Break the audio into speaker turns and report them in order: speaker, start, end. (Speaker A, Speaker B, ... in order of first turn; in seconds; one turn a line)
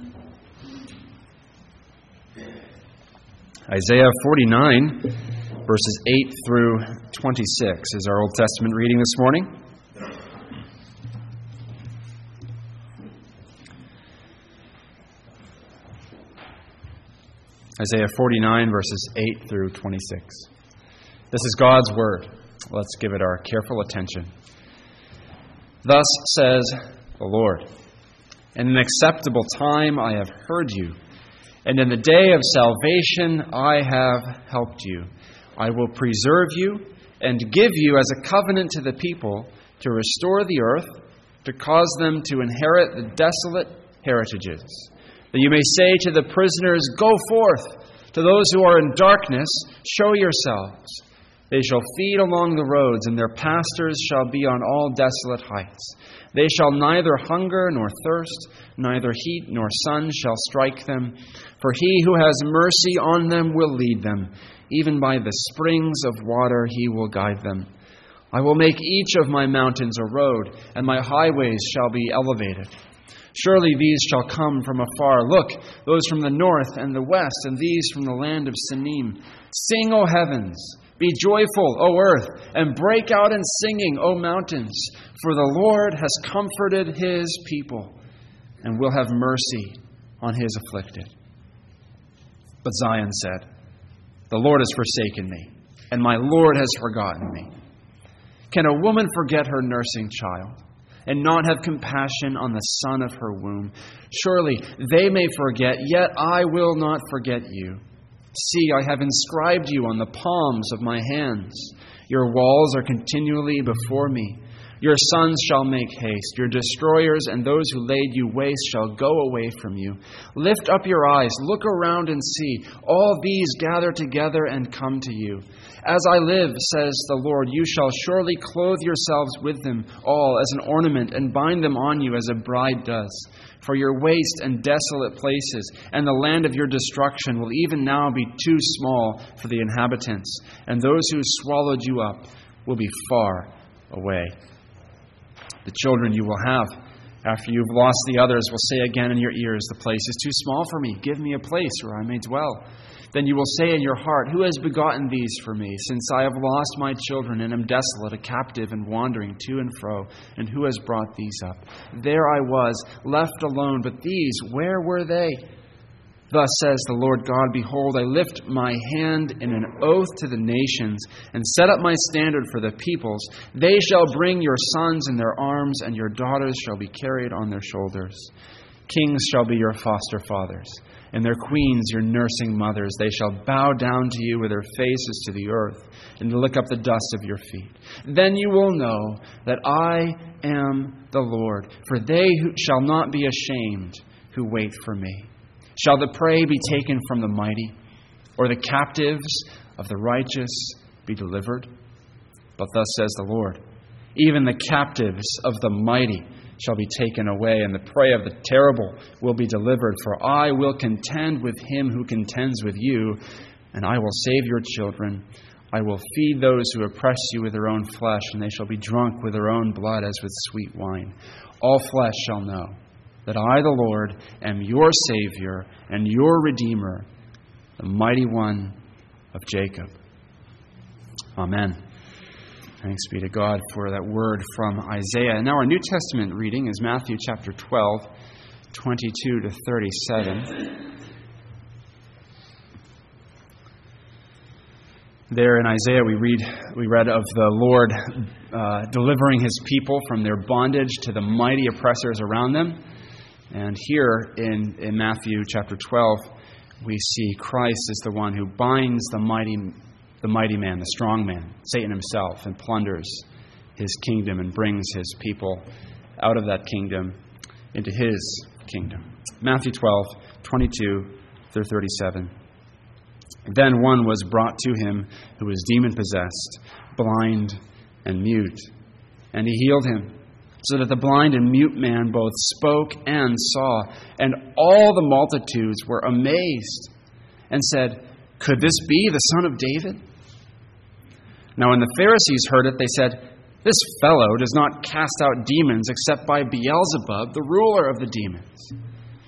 Speaker A: 3.7-9.5
Speaker A: 17.8-20.5
Speaker A: 21.3-24.3
Speaker A: 25.8-27.7
Speaker A: 28.6-31.0
Speaker A: 31.6-67.7
Speaker A: 68.3-72.7
Speaker A: 73.3-88.0
Speaker A: 88.6-91.1
Speaker A: 92.6-93.5
Speaker A: 94.3-97.5
Speaker A: 98.5-107.8
Speaker A: 108.3-144.3
Speaker A: 145.7-146.7
Speaker A: 147.2-165.4
Speaker A: 166.3-178.3
Speaker A: 178.9-197.8
Speaker A: 198.4-201.7
Speaker A: 202.6-203.6
Speaker A: 204.2-213.2
Speaker A: 213.7-227.1
Speaker A: 227.8-228.8
Speaker A: 229.3-230.0
Speaker A: 231.4-231.8
Speaker A: 232.8-238.1
Speaker A: 238.7-240.6
Speaker A: 245.3-252.8
Speaker A: 253.5-263.2
Speaker A: 263.8-265.7
Speaker A: 266.2-267.2
Speaker A: 267.7-272.3
Speaker A: 273.5-278.7
Speaker A: 279.3-286.9
Speaker A: 287.5-290.0
Speaker A: 291.6-298.8